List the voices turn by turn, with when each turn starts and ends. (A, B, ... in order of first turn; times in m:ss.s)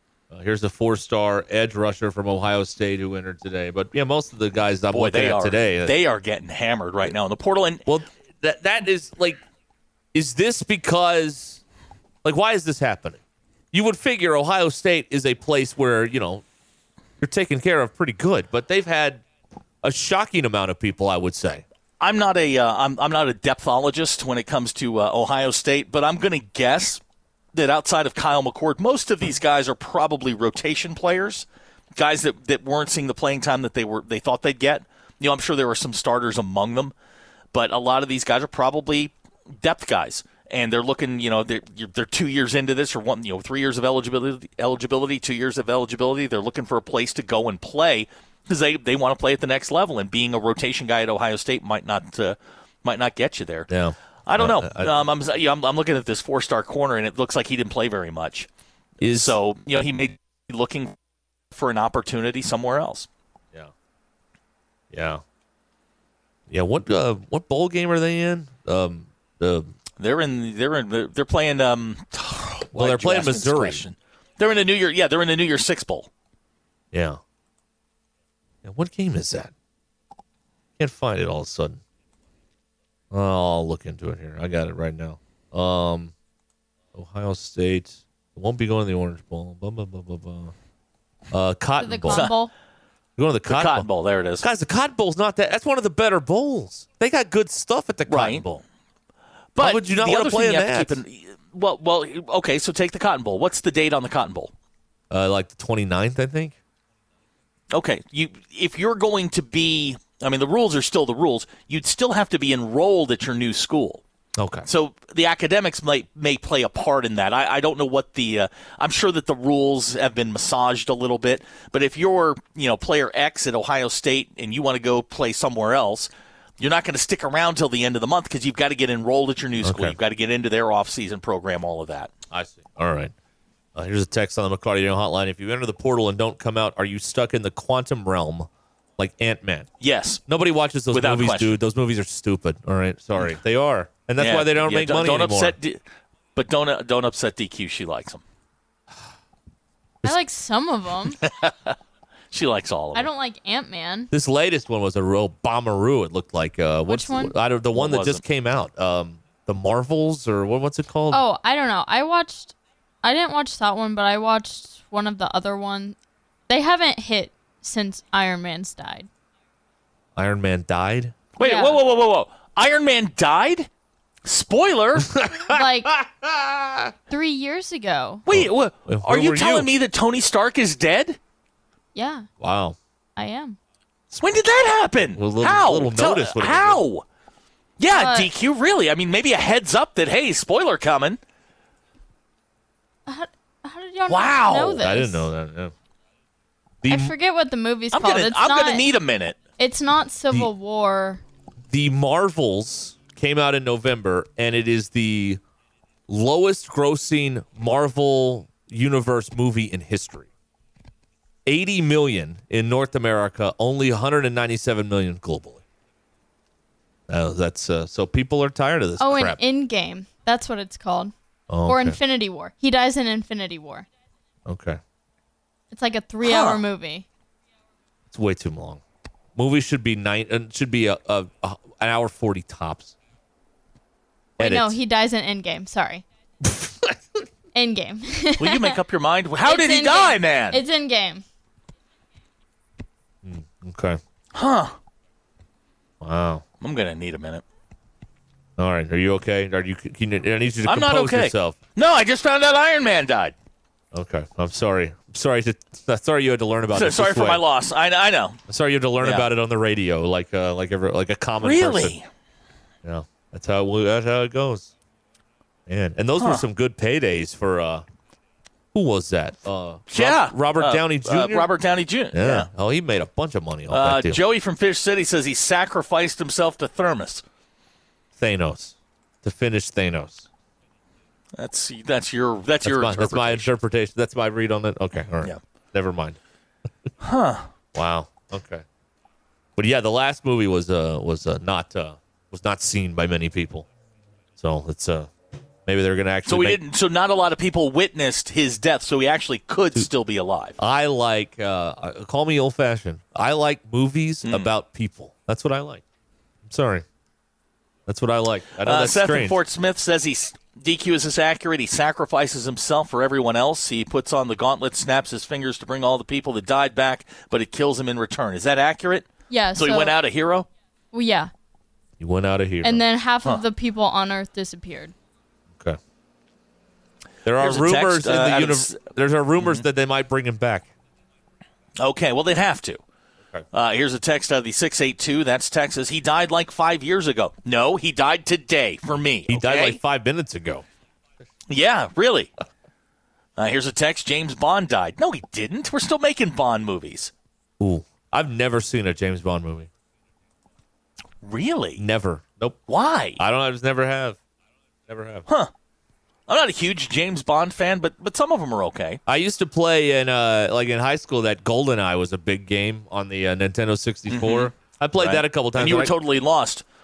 0:00.3-0:05.9 A
0:04.9-0:07.9 B
0:07.9-0:09.4 A
0:10.1-0:11.6 A
0:12.2-0:13.2 A
0:13.7-0:16.4 A
0:17.2-0:19.2 A
0:19.8-0:21.6 A
0:22.0-0:27.0 B
0:27.5-0:31.4 B
0:32.0-0:36.9 B
0:37.5-0:53.7 B
0:53.7-0:55.1 A
0:54.2-0:58.5 B
0:59.0-0:59.4 A
0:59.0-1:01.0 B
1:01.5-1:03.1 B
1:04.9-1:05.2 A
1:06.5-1:09.7 A
1:10.0-1:16.1 B
1:12.7-1:13.8 A
1:16.9-1:17.2 A
1:18.6-1:19.5 A
1:20.8-1:21.8 A
1:23.1-1:26.1 A
1:26.9-1:30.5 A
1:31.3-1:32.3 A
1:31.8-1:32.5 C
1:32.1-1:32.4 B
1:33.2-1:33.9 A
1:33.5-1:34.4 B
1:34.4-1:38.6 A
1:38.1-1:38.5 B
1:39.6-1:44.5 B
1:39.6-1:41.0 A
1:45.1-1:46.6 A
1:47.7-1:54.0 B
1:54.4-1:54.7 A
1:54.6-2:12.1 B
2:09.6-2:10.0 A
2:12.3-2:13.1 A
2:13.7-2:19.7 A
2:19.8-2:20.2 B
2:20.3-2:25.6 A
2:20.9-2:21.6 B
2:24.2-2:25.8 B
2:26.4-2:28.2 B
2:30.0-2:31.2 C
2:31.2-2:31.8 B
2:32.3-2:33.1 B
2:32.9-2:34.1 C
2:34.1-2:41.2 A
2:36.9-2:37.4 C
2:37.7-2:38.2 B
2:41.1-2:46.0 C
2:46.5-2:49.1 C
2:50.2-2:51.2 A
2:51.4-2:53.7 B
2:51.4-2:51.8 C
2:54.2-2:55.1 B
2:55.0-2:56.9 A
2:55.5-2:55.9 C
2:57.1-2:58.2 C
2:58.2-3:01.2 B
2:58.3-2:59.7 A
3:01.9-3:02.3 C
3:02.4-3:02.8 A
3:03.2-3:03.6 C
3:04.2-3:07.0 B
3:05.1-3:06.8 A
3:07.8-3:11.2 B
3:07.9-3:08.3 C
3:13.1-3:15.3 C
3:14.1-3:14.8 B
3:14.8-3:15.7 A
3:16.8-3:17.1 A
3:16.8-3:18.9 C
3:17.9-3:19.4 B
3:19.6-3:21.2 C
3:21.7-3:25.4 A
3:26.1-3:30.3 A
3:31.4-3:35.6 A
3:37.1-3:39.4 A
3:39.0-3:41.1 C
3:41.5-3:42.0 A
3:41.7-3:43.8 C
3:44.4-3:44.8 A
3:45.7-3:47.0 C
3:46.2-3:46.6 B
3:48.1-3:48.8 A
3:49.4-3:52.9 A
3:54.4-3:54.8 A
3:54.4-3:56.0 C
3:56.4-3:57.0 A
3:57.5-3:58.8 C
3:58.4-4:00.6 B
3:59.4-4:01.2 C
4:03.2-4:04.0 A
4:04.3-4:04.8 B
4:06.0-4:06.4 A
4:06.6-4:07.4 B
4:08.6-4:11.6 A
4:10.6-4:13.3 B
4:13.9-4:17.4 A
4:16.7-4:18.4 B
4:18.5-4:21.9 A
4:19.0-4:19.3 B
4:21.4-4:22.1 B
4:22.8-4:24.7 A
4:25.7-4:27.8 A
4:26.2-4:26.4 B
4:28.7-4:31.5 A
4:29.9-4:32.5 B
4:32.1-4:34.2 A
4:33.7-4:37.2 B
4:38.2-4:40.2 A
4:41.4-4:43.5 B
4:42.6-4:46.2 A
4:47.0-4:47.5 B
4:47.7-4:48.6 A
4:49.6-4:53.7 A
4:54.4-4:55.1 A
4:55.6-4:56.6 A
4:56.2-5:00.6 B
5:00.6-5:05.8 A
5:04.2-5:04.5 B
5:06.4-5:06.8 A
5:07.9-5:09.4 A
5:08.6-5:20.5 B
5:19.3-5:20.0 C
5:20.9-5:21.3 C
5:22.0-5:22.8 A
5:22.6-5:24.9 C
5:27.2-5:30.7 A
5:27.4-5:28.8 B
5:29.4-5:29.6 B
5:31.8-5:32.8 B
5:33.5-5:39.8 B
5:39.3-5:40.6 A
5:41.5-5:42.3 B
5:43.4-5:47.1 B
5:47.6-5:49.7 A
5:51.2-5:51.8 B
5:51.8-5:52.6 A
5:52.7-5:53.2 B
5:53.2-5:54.2 A
5:54.9-5:55.2 A
5:56.3-5:59.0 B
5:59.0-6:05.9 A
6:04.1-6:06.6 B